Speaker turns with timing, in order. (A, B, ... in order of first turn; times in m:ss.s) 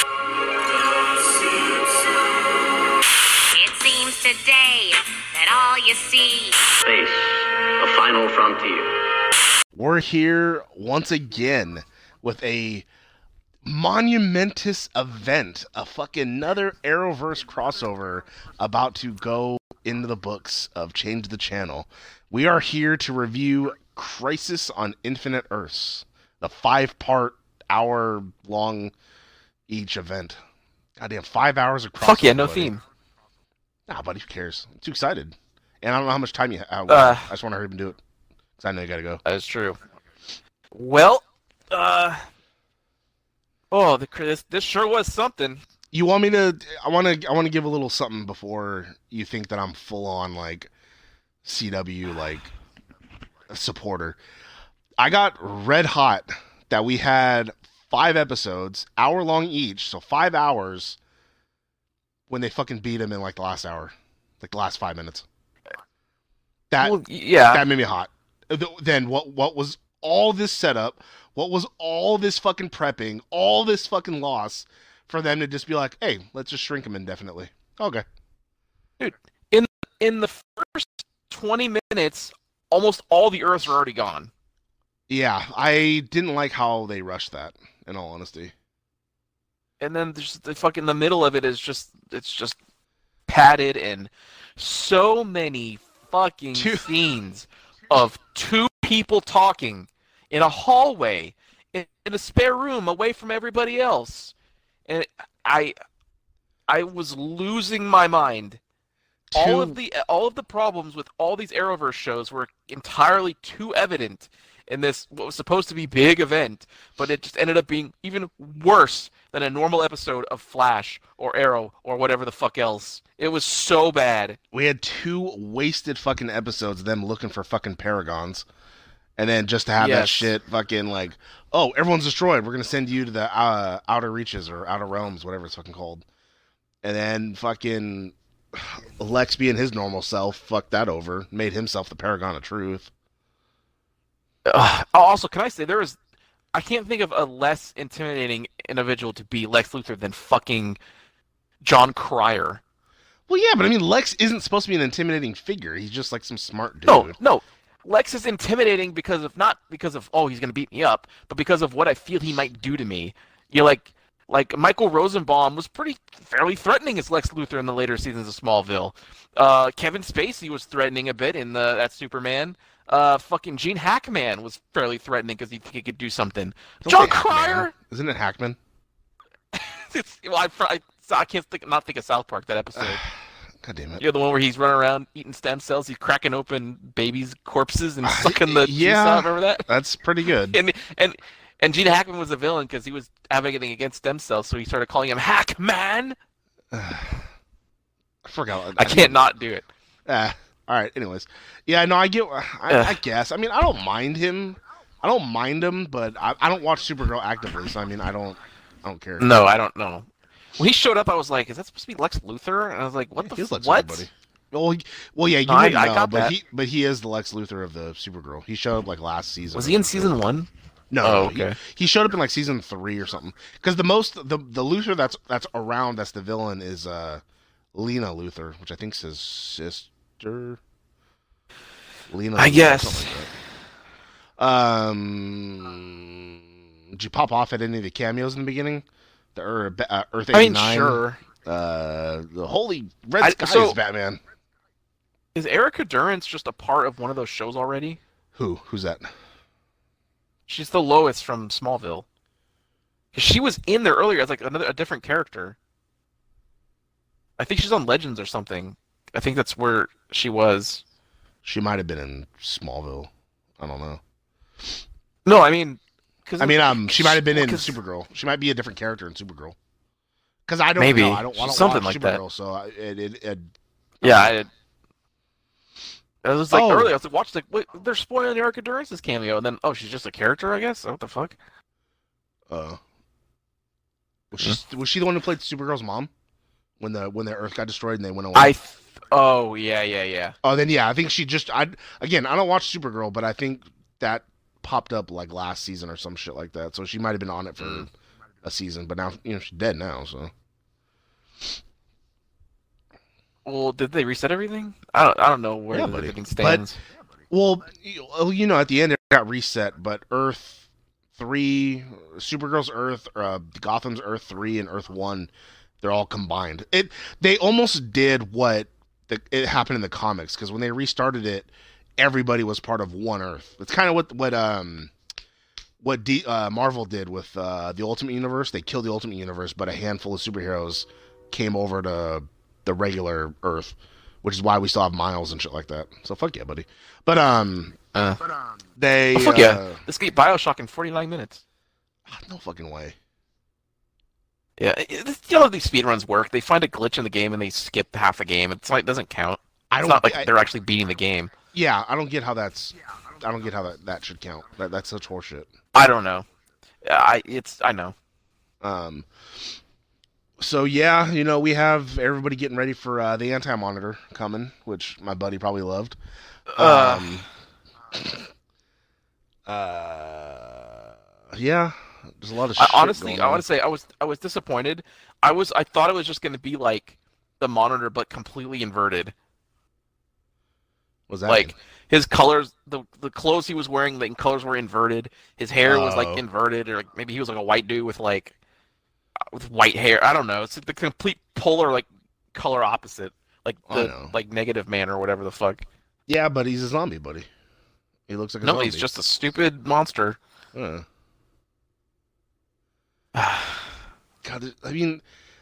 0:00.6-0:02.5 A
0:03.5-0:06.6 B
0:06.8-0:09.0 A
0:09.7-0:12.9 C
0:13.6-0:28.9 C
0:29.7-0:30.4 C
0:31.0-0:32.7 C
0:32.0-0:32.8 D
0:33.9-0:38.0 C
0:36.9-0:37.3 D
0:38.6-0:39.2 C
0:39.2-0:39.8 D
0:40.7-0:42.2 D
0:43.7-0:45.6 D
0:45.9-0:50.7 C
0:51.4-0:52.5 C
0:53.5-0:54.2 C
0:55.0-1:01.0 C
1:02.3-1:05.3 C
1:06.7-1:18.0 C
1:06.8-1:07.7 D
1:19.0-1:24.3 D
1:25.1-1:28.5 C
1:29.8-1:32.6 D
1:33.3-1:44.3 D
1:36.6-1:36.9 C
1:44.9-1:45.7 D
1:46.7-1:48.6 D
1:49.3-1:49.8 C
1:49.3-2:04.4 D
2:04.5-2:08.5 C
2:09.2-2:16.0 C
2:09.8-2:10.3 D
2:16.8-2:22.9 C
2:24.5-2:26.0 D
2:26.5-2:30.8 D
2:31.6-2:32.6 D
2:33.3-2:37.2 C
2:36.9-2:57.7 D
2:56.8-2:58.6 C
2:59.5-3:03.0 D
3:02.8-3:04.0 C
3:04.0-3:09.7 D
3:08.0-3:10.6 C
3:10.5-3:16.2 D
3:16.7-3:17.3 C
3:18.2-3:19.2 C
3:18.8-3:19.7 D
3:20.1-3:29.4 C
3:22.7-3:23.0 D
3:29.2-3:34.1 D
3:33.2-3:40.2 C
3:35.5-3:36.4 D
3:39.5-3:40.5 D
3:40.9-3:47.2 C
3:41.0-3:41.6 D
3:47.7-3:50.6 C
3:52.1-3:53.3 C
3:52.4-3:53.1 D
3:54.4-4:04.2 C
4:00.3-4:01.2 D
4:03.2-4:03.8 D
4:05.4-4:08.0 D
4:08.4-4:09.1 C
4:10.5-4:12.1 D
4:13.1-4:15.6 D
4:17.4-4:20.8 D
4:21.4-4:24.0 C
4:25.3-4:27.8 D
4:26.4-4:29.6 C
4:30.5-4:34.3 C
4:30.8-4:32.2 D
4:34.0-4:34.5 D
4:36.2-4:41.4 D
4:36.5-4:36.9 C
4:42.5-4:42.8 C
4:44.3-4:46.1 C
4:46.8-4:48.5 C
4:48.3-4:50.4 D
4:50.4-4:57.9 C
4:57.6-4:57.9 D
4:58.4-5:00.3 C
5:03.4-5:06.8 D
5:05.7-5:06.6 C
5:07.3-5:24.9 C
5:25.8-5:37.8 C
5:37.9-5:38.2 D
5:38.8-5:39.8 C
5:39.1-5:41.4 D
5:42.1-5:43.0 C
5:44.6-5:51.3 D
5:49.7-5:50.3 C
5:51.5-5:55.5 C
5:55.7-5:56.2 D
5:56.8-5:58.0 D
5:58.6-5:59.1 C
6:00.4-6:06.0 C
6:06.5-6:07.2 D
6:06.6-6:07.3 C
6:07.9-6:08.3 C
6:09.5-6:13.4 C
6:12.6-6:19.1 D
6:21.1-6:21.5 C
6:21.3-6:28.4 D
6:25.6-6:26.2 C
6:29.3-6:35.6 D
6:33.7-6:34.2 C
6:36.1-6:37.3 C
6:38.1-6:38.9 C
6:38.4-6:40.2 D
6:40.5-6:40.9 C
6:43.2-6:43.7 D
6:44.2-6:45.0 C